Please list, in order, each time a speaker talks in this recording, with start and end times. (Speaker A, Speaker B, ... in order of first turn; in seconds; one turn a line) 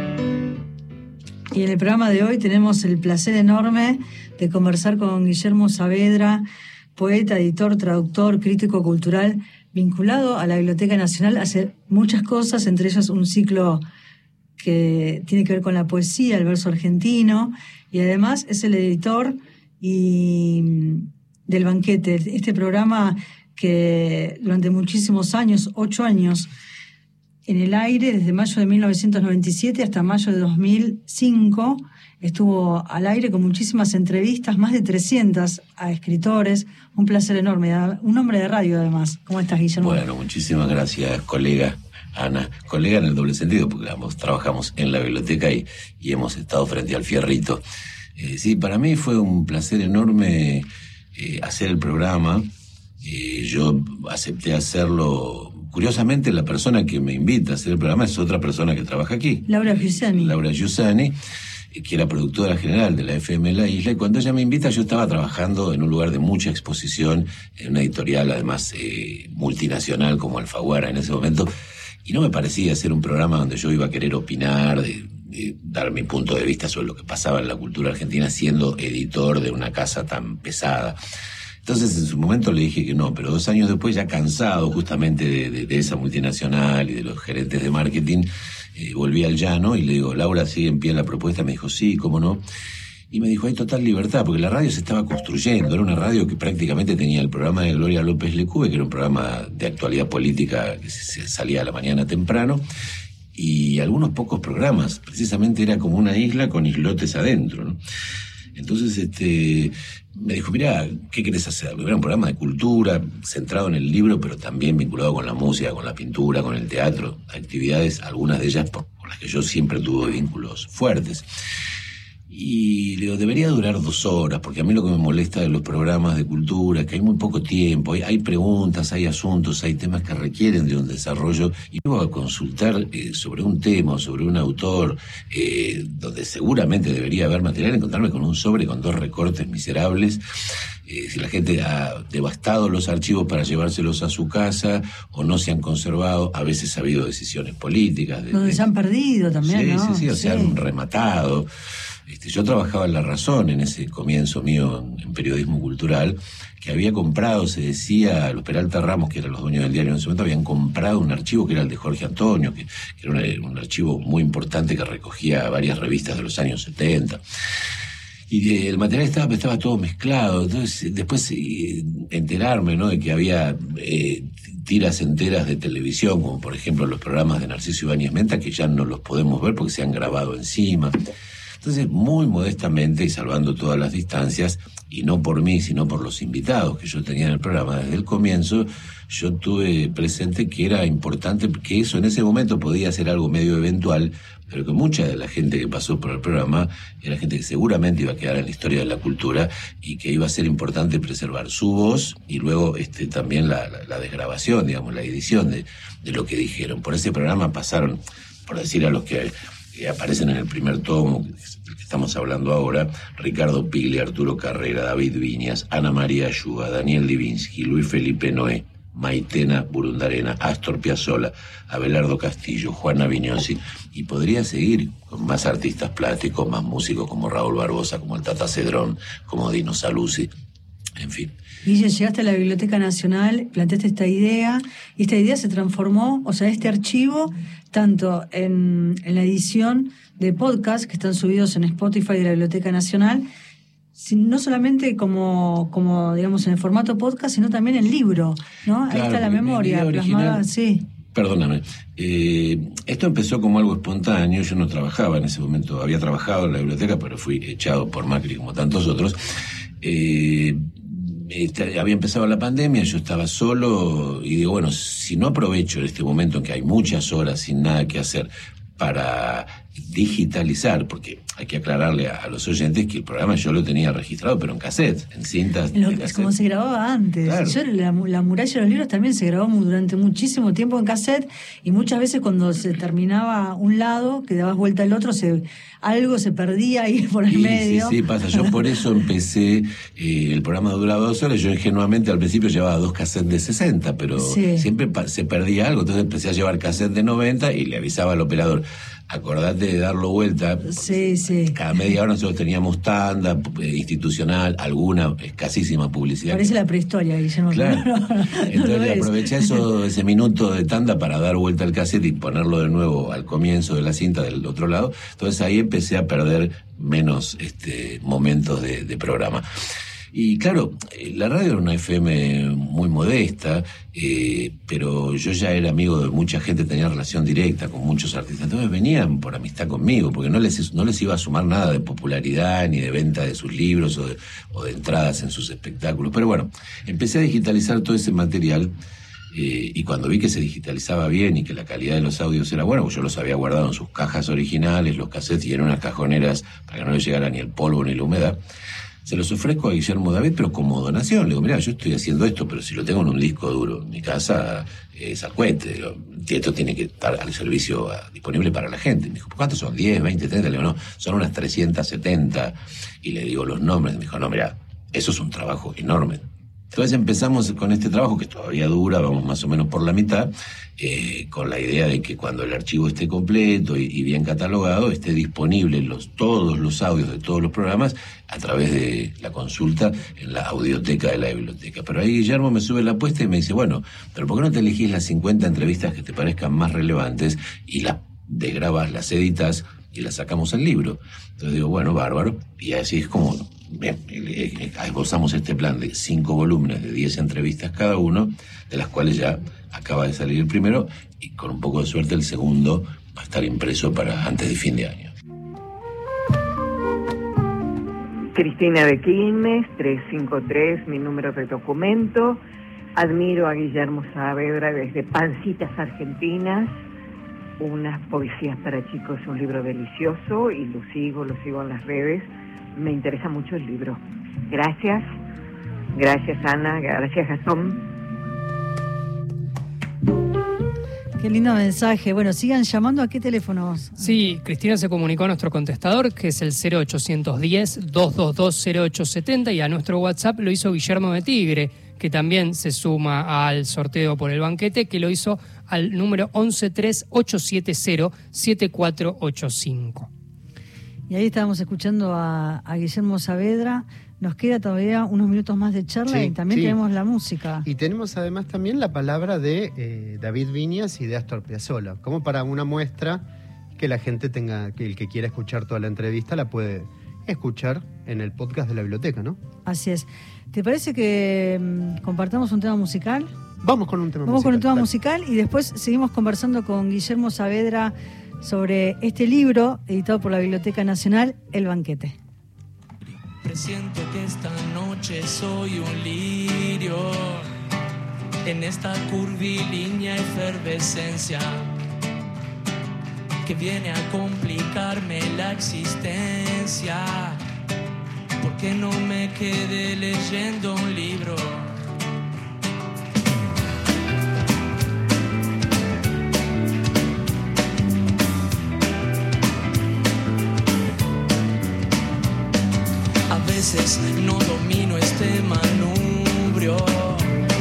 Speaker A: 1.5-13.8
Speaker A: 14.6-26.5
Speaker A: 27.5-40.0
Speaker B: 39.8-47.6
Speaker B: 48.1-52.5
Speaker B: 53.0-61.2
Speaker A: 59.5-60.3
Speaker B: 61.7-71.5
Speaker B: 72.0-81.0
Speaker B: 81.6-92.4
Speaker B: 93.1-102.6
Speaker B: 103.3-107.8
Speaker B: 108.5-121.3
Speaker B: 122.3-140.2
Speaker B: 140.8-148.6
Speaker A: 148.3-150.6
Speaker B: 149.4-151.5
Speaker B: 152.1-167.2
Speaker B: 168.3-181.0
Speaker B: 181.6-230.3
Speaker B: 231.0-231.3
Speaker A: 231.6-243.3
Speaker A: 243.9-250.8
Speaker B: 248.9-250.4
Speaker B: 251.1-259.2
Speaker B: 259.8-276.3
Speaker A: 275.7-288.5
Speaker B: 277.2-277.6
Speaker B: 287.3-306.5
Speaker A: 294.2-294.7
Speaker A: 300.7-301.6
Speaker A: 306.3-309.6
Speaker B: 307.5-319.4
Speaker B: 320.1-338.7
Speaker B: 339.3-348.4
Speaker B: 349.0-405.1
Speaker C: 408.3-412.4
Speaker C: 412.9-416.7
Speaker C: 417.6-425.1
Speaker C: 425.9-427.9
Speaker A: 431.2-434.1
Speaker D: 434.0-450.1
Speaker A: 451.1-457.6
Speaker E: 456.1-456.8
Speaker E: 457.6-469.4
Speaker A: 469.6-473.3
Speaker E: 473.6-474.9
Speaker A: 474.2-482.2
Speaker F: 483.4-487.5
Speaker F: 488.4-491.6
Speaker F: 493.4-497.4
Speaker F: 498.4-501.7
Speaker F: 513.3-517.3